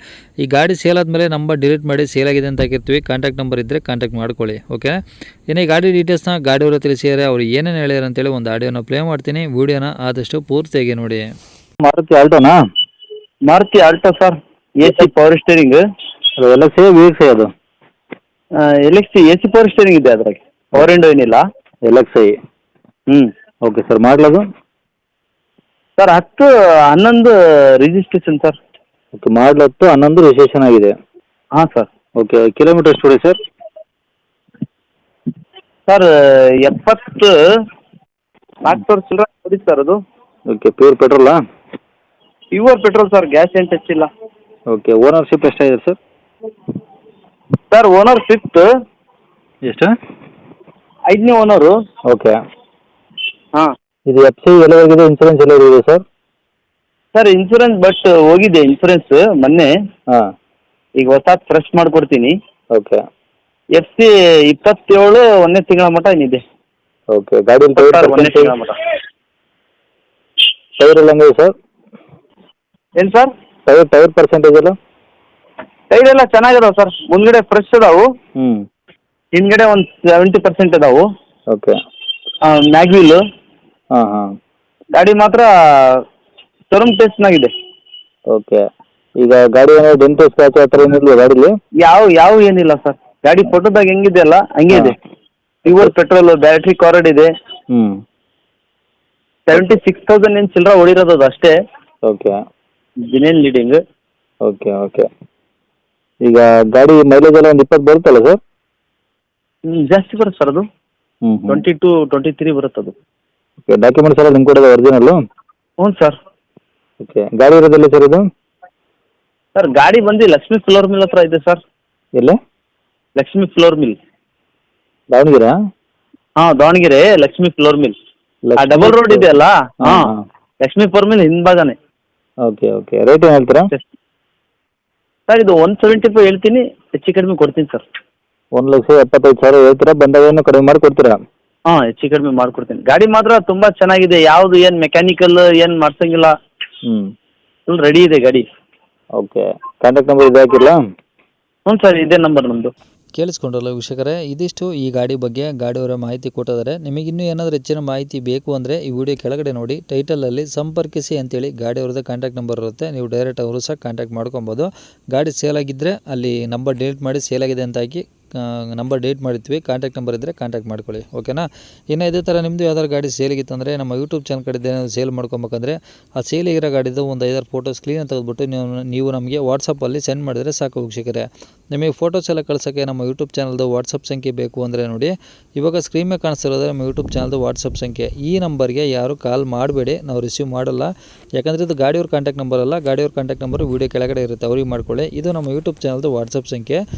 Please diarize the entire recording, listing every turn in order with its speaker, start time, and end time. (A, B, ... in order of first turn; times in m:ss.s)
0:00.4-0:04.9 A
0:05.5-0:11.2 A
0:11.8-0:12.6 B
0:13.5-0:15.8 C
0:16.4-0:17.5 B
0:18.6-0:21.4 C
0:21.8-0:22.3 B
0:23.6-0:24.4 B
0:26.0-0:28.6 C
0:29.2-0:30.9 B
0:31.6-0:31.9 C
0:32.2-0:33.4 B
0:36.6-0:37.3 C
0:38.6-0:40.0 C
0:40.5-0:41.4 B
0:42.5-0:44.1 C
0:44.7-0:46.0 B
0:47.7-0:48.7 C
0:49.6-0:49.9 B
0:51.1-0:51.7 C
0:52.1-0:52.3 B
0:54.1-0:56.0 B
0:57.1-0:59.7 C
1:01.0-1:02.3 C
1:02.7-1:03.0 B
1:03.8-1:06.4 C
1:07.1-1:08.5 B
1:07.7-1:08.8 C
1:10.8-1:11.5 B
1:13.0-1:13.3 C
1:13.7-1:14.7 B
1:15.9-1:18.0 C
1:18.4-1:18.6 B
1:19.3-1:21.0 C
1:22.4-1:23.2 C
1:23.9-1:24.3 B
1:25.0-1:26.0 C
1:26.7-1:27.5 C
1:28.3-1:28.6 B
1:29.2-1:31.5 B
1:31.8-1:35.0 C
1:35.6-1:37.3 C
1:37.7-1:38.0 B
1:39.5-1:41.5 C
1:42.1-1:42.3 B
1:43.1-1:43.8 C
1:44.4-1:45.0 B
1:46.2-1:48.4 B
1:49.7-1:50.6 C
1:51.2-1:51.6 B
1:51.5-1:52.9 C
1:53.7-1:55.2 B
1:55.8-1:56.2 C
1:57.0-1:58.2 B
1:59.6-2:01.6 C
2:03.2-2:04.0 C
2:05.1-2:05.5 B
2:06.4-2:07.9 C
2:08.5-2:09.3 B
2:08.6-2:10.1 C
2:09.8-2:10.1 B
2:10.6-2:11.7 C
2:12.4-2:13.7 B
2:15.3-2:17.8 C
2:18.5-2:21.2 B
2:21.7-2:26.3 C
2:27.7-2:28.4 C
2:29.2-2:30.8 B
2:31.7-2:32.7 C
2:33.2-3:16.8 A